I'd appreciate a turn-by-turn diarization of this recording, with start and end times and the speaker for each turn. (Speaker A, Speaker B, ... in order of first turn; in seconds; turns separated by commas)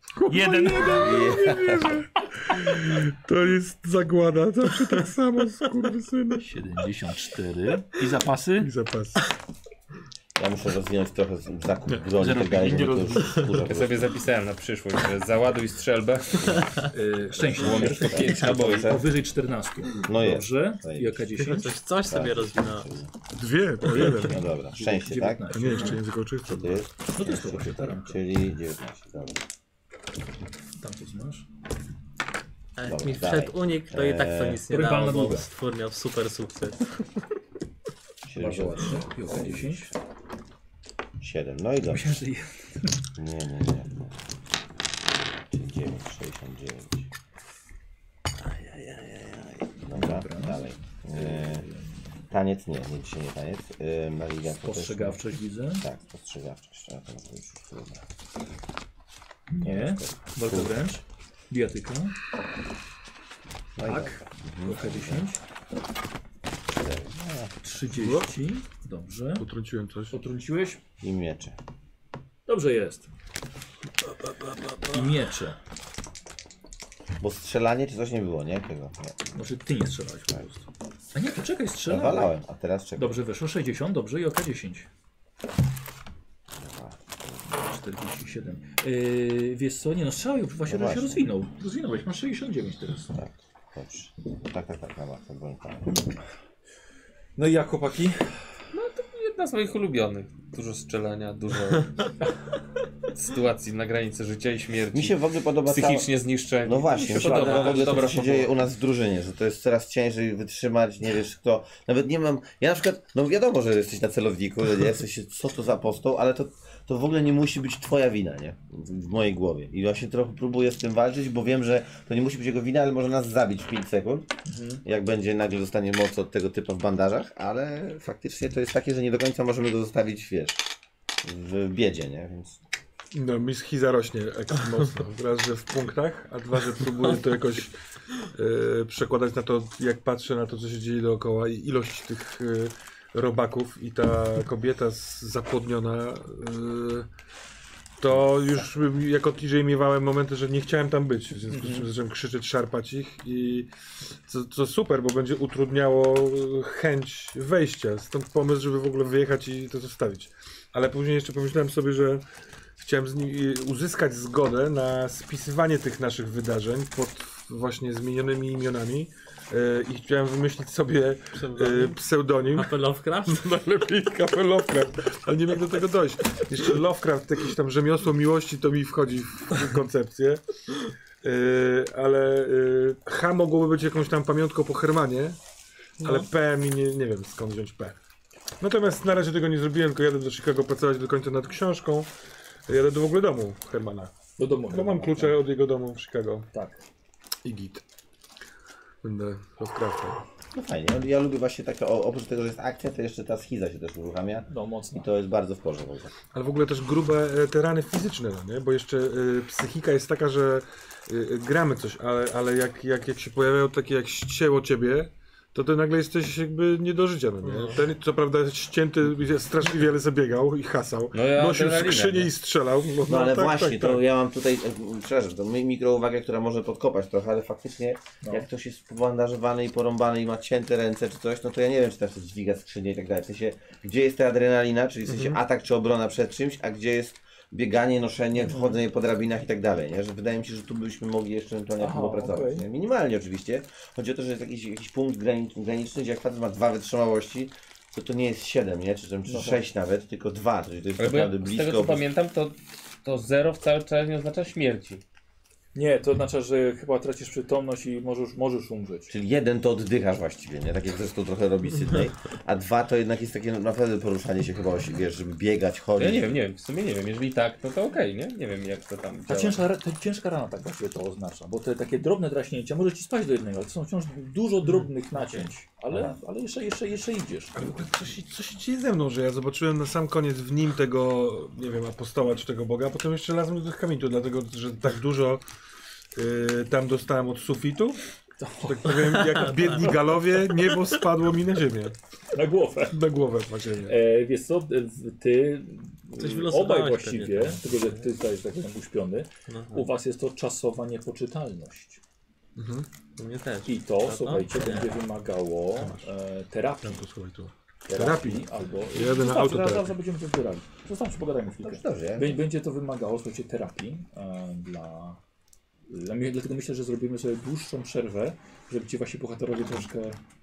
Speaker A: 0.2-6.5, Speaker B: 0.2-1.1, Speaker C: 1.0-2.0, Speaker B: 6.4-8.7, Speaker A: 8.6-9.2, Speaker C: 10.4-14.2, Speaker B: 12.2-13.5, Speaker D: 13.5-16.8, Speaker B: 16.9-21.8, Speaker D: 17.4-18.9, Speaker C: 17.4-19.1, Speaker C: 20.0-21.3, Speaker E: 21.4-22.9, Speaker C: 22.0-23.1, Speaker A: 23.3-24.4, Speaker B: 23.8-26.0, Speaker C: 24.2-25.8, Speaker A: 25.5-26.8, Speaker C: 26.5-29.4, Speaker B: 27.1-28.2, Speaker B: 30.8-31.4, Speaker E: 32.8-36.9, Speaker C: 32.8-34.6, Speaker B: 34.7-35.5, Speaker C: 38.2-39.9, Speaker B: 38.4-39.9, Speaker C: 41.2-42.1, Speaker B: 41.9-42.9, Speaker C: 43.1-44.1, Speaker C: 45.5-47.0, Speaker B: 48.8-52.1, Speaker C: 49.8-51.6, Speaker C: 52.3-55.2, Speaker B: 54.6-55.9, Speaker C: 55.8-58.0, Speaker B: 59.5-62.1, Speaker C: 59.6-60.8, Speaker C: 63.8-65.3, Speaker B: 63.8-65.4, Speaker C: 66.7-67.5, Speaker B: 67.6-69.5, Speaker A: 68.0-68.3, Speaker A: 69.4-70.1, Speaker B: 70.1-70.8, Speaker C: 71.0-71.5, Speaker B: 72.5-73.1, Speaker B: 74.9-75.6, Speaker C: 77.2-79.2, Speaker B: 79.3-82.3, Speaker C: 81.9-83.1, Speaker B: 83.0-84.9, Speaker C: 86.5-87.0, Speaker B: 87.4-93.2, Speaker C: 90.7-91.2, Speaker C: 93.2-96.1, Speaker B: 97.3-98.4, Speaker D: 98.7-102.1, Speaker D: 103.1-108.5, Speaker C: 104.9-106.1, Speaker C: 106.6-124.3, Speaker B: 107.0-108.2, Speaker B: 124.5-124.8, Speaker C: 124.8-130.6, Speaker C: 131.2-132.6, Speaker A: 133.1-137.7, Speaker A: 138.3-147.1, Speaker A: 148.0-153.7, Speaker B: 151.5-151.9, Speaker A: 154.3-162.2, Speaker A: 162.8-180.4, Speaker E: 171.3-172.0, Speaker E: 172.5-173.5, Speaker A: 181.2-185.4, Speaker E: 186.0-186.3, Speaker A: 186.0-188.0, Speaker A: 188.6-192.1, Speaker A: 192.7-194.1, Speaker B: 194.4-195.4, Speaker A: 194.7-196.4, Speaker B: 196.5-196.8, Speaker A: 197.4-197.8, Speaker A: 199.0-200.2, Speaker C: 200.5-206.1, Speaker B: 204.5-205.1, Speaker A: 206.3-224.0, Speaker E: 217.4-217.8, Speaker D: 221.1-222.3, Speaker C: 223.1-252.0, Speaker B: 238.4-238.8, Speaker B: 241.8-242.7, Speaker B: 249.2-249.6, Speaker D: 251.0-255.0, Speaker B: 255.7-259.1, Speaker C: 259.1-266.4, Speaker D: 266.0-269.6, Speaker B: 269.3-277.6, Speaker C: 275.9-276.1, Speaker A: 277.5-285.4, Speaker A: 286.1-288.0, Speaker B: 288.4-289.0, Speaker A: 288.6-292.0, Speaker E: 288.9-289.9, Speaker B: 292.3-293.0, Speaker A: 292.9-293.9, Speaker B: 293.8-302.0, Speaker E: 296.1-298.1, Speaker E: 299.5-299.9, Speaker A: 302.6-302.9, Speaker E: 303.2-305.0, Speaker B: 303.6-307.0, Speaker A: 305.8-306.1, Speaker A: 306.8-309.9, Speaker B: 307.9-315.2, Speaker C: 311.6-312.4, Speaker B: 315.9-320.2